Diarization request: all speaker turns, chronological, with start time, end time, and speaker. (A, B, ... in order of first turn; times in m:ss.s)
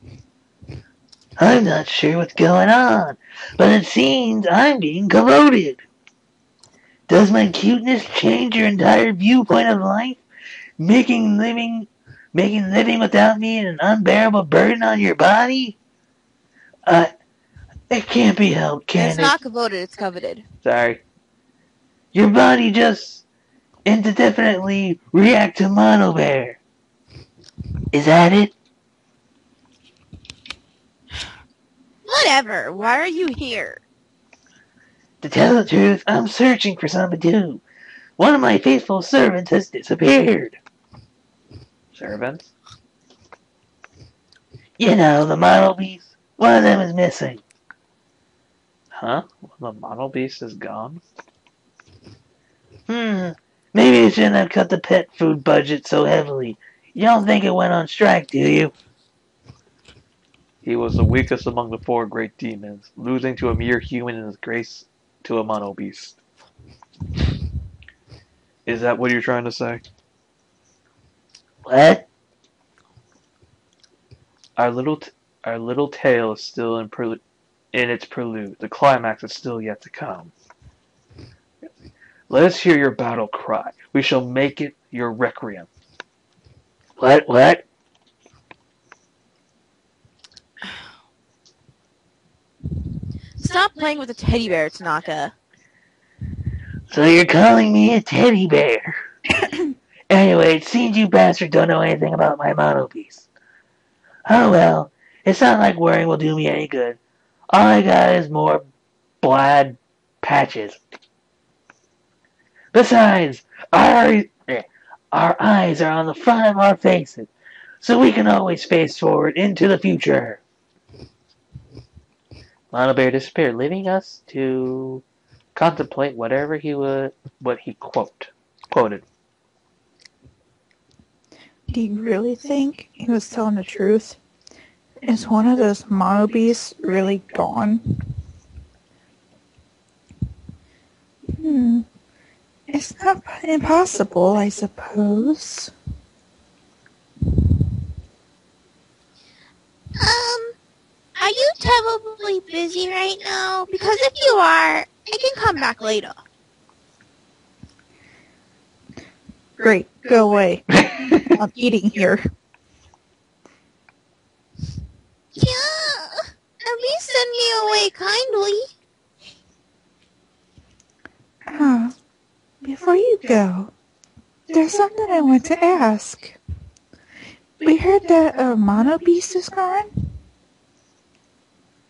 0:01.4-0:05.8 A
0:07.1-0:10.2 A
0:10.8-0:15.8 A
0:16.9-0:17.1 A
0:17.9-0:19.4 A
0:19.0-0:20.4 B
0:20.6-0:21.0 A
0:22.1-0:23.2 A
0:23.9-0:26.6 A
0:27.9-0:28.5 A
0:32.1-0:33.8 B
0:35.2-0:37.6 A
0:38.2-0:40.6 A
0:41.9-0:42.5 A
0:44.8-0:47.4 A
0:48.9-0:51.0 A
0:52.9-0:58.7 A
1:00.6-1:06.2 A
1:08.7-1:09.8 A
1:11.7-1:12.1 A
1:14.6-1:17.2 A
1:17.7-1:20.3 A
1:22.3-1:25.7 A
1:27.0-1:27.6 A
1:33.4-1:35.3 B
1:36.9-1:39.0 A
1:40.1-1:43.3 A
1:44.3-1:47.0 A
1:47.5-1:48.7 A
1:49.2-1:50.8 A
1:52.7-2:00.4 A
2:02.7-2:05.0 A
2:05.6-2:09.0 A
2:11.7-2:14.2 C
2:15.0-2:18.0 C
2:21.3-2:21.9 C
2:22.7-2:25.7 C
2:30.0-2:30.6 D
2:31.2-2:36.2 D
2:39.6-2:42.3 C
2:40.7-2:41.4 A
2:45.4-2:48.7 D
2:51.5-2:52.0 C
2:52.6-2:53.7 C
2:54.5-2:56.4 C
2:57.6-2:59.9 C